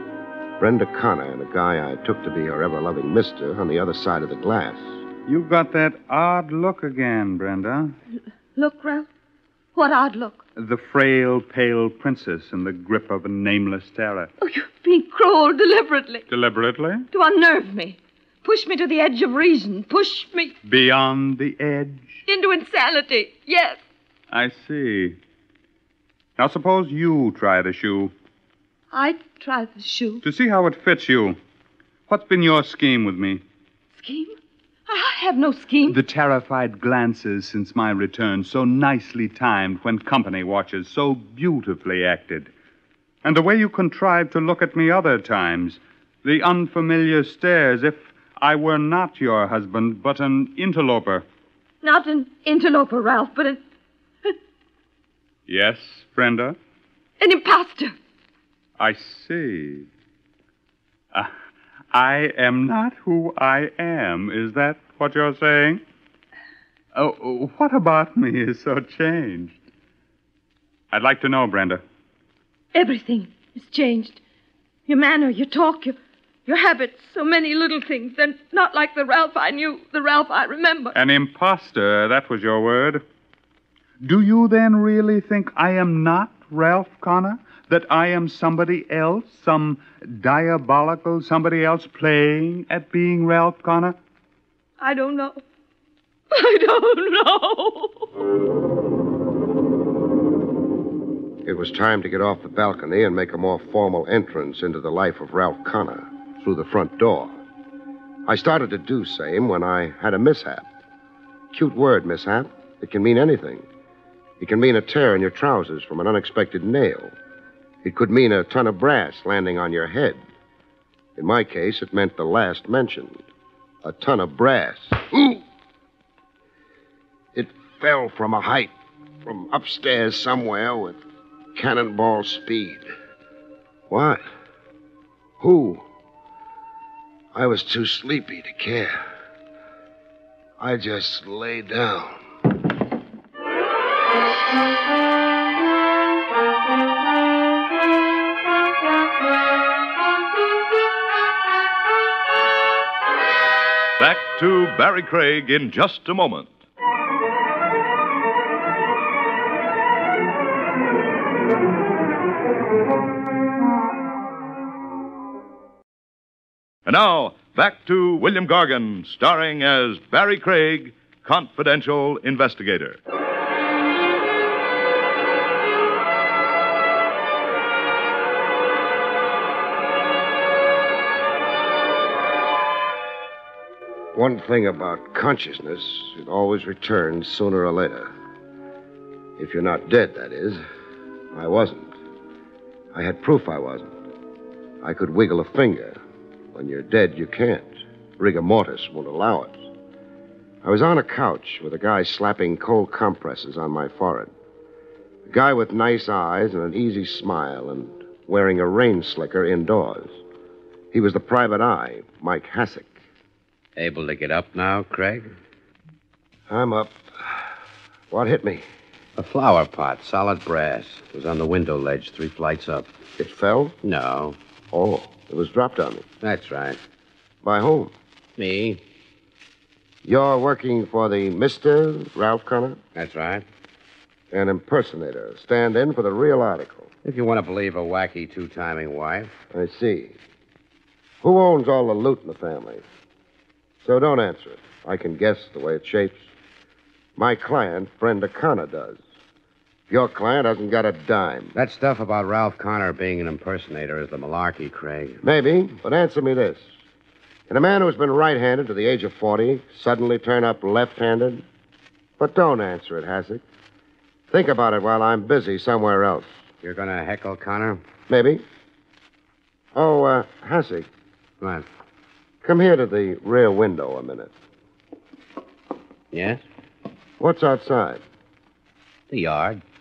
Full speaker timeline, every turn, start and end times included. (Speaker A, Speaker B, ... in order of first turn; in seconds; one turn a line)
Speaker A: 0.6-4.9
Speaker B: 5.3-7.9
Speaker C: 8.6-9.1
Speaker C: 9.8-10.4
Speaker B: 10.6-14.3
Speaker C: 14.4-16.2
Speaker B: 16.3-17.1
Speaker C: 17.1-20.6
Speaker B: 20.6-22.2
Speaker C: 22.3-23.8
Speaker B: 24.3-25.2
Speaker B: 26.4-28.1
Speaker C: 28.9-30.2
Speaker B: 30.2-31.4
Speaker B: 32.1-33.4
Speaker C: 34.0-34.4
Speaker C: 34.9-36.0
Speaker B: 35.9-42.5
Speaker B: 43.2-51.2
Speaker C: 51.8-53.6
Speaker B: 55.5-56.6
Speaker C: 57.2-58.0
Speaker B: 58.8-59.9
Speaker B: 61.9-65.8
Speaker B: 67.0-69.6
Speaker B: 70.9-71.8
Speaker C: 72.7-74.2
Speaker C: 74.9-80.9
Speaker B: 80.9-83.0
Speaker B: 84.0-94.0
Speaker C: 94.8-95.4
Speaker C: 96.3-98.0
Speaker A: 101.5-107.4
Speaker A: 108.3-110.7
Speaker A: 111.5-113.7
Speaker A: 114.4-117.1
Speaker A: 117.8-120.2
Speaker A: 121.2-123.2
Speaker A: 123.8-125.4
Speaker A: 127.3-128.7
Speaker A: 129.2-131.0
Speaker A: 131.6-132.9
Speaker A: 133.9-134.2
Speaker A: 135.4-135.8
Speaker A: 137.3-139.0
Speaker A: 140.6-142.2
Speaker D: 154.0-156.6
Speaker D: 166.9-173.0
Speaker A: 184.1-188.1
Speaker A: 189.4-190.6
Speaker A: 191.3-191.9
Speaker A: 192.9-193.9
Speaker A: 194.8-196.0
Speaker A: 196.5-199.6
Speaker A: 200.6-204.3
Speaker A: 205.3-210.2
Speaker A: 210.9-212.9
Speaker E: 213.8-215.3
Speaker A: 216.5-217.4
Speaker A: 218.1-218.7
Speaker E: 219.2-222.9
Speaker A: 223.2-223.8
Speaker E: 223.8-224.4
Speaker A: 224.7-226.1
Speaker E: 226.2-226.8
Speaker A: 227.4-227.9
Speaker E: 228.4-228.8
Speaker A: 230.1-232.8
Speaker E: 232.9-233.4
Speaker A: 234.3-236.9
Speaker E: 237.0-239.4
Speaker A: 239.5-240.2
Speaker A: 241.2-242.8
Speaker A: 243.8-246.2
Speaker A: 247.2-249.0
Speaker A: 249.9-251.5
Speaker E: 251.6-255.2
Speaker A: 255.2-256.6
Speaker A: 257.5-261.4
Speaker A: 262.2-263.4
Speaker A: 264.3-266.4
Speaker E: 266.6-267.8
Speaker A: 268.1-268.4
Speaker A: 269.8-270.9
Speaker E: 271.4-271.7
Speaker A: 272.4-274.3
Speaker E: 276.1-276.4
Speaker A: 277.2-278.0
Speaker E: 279.1-279.6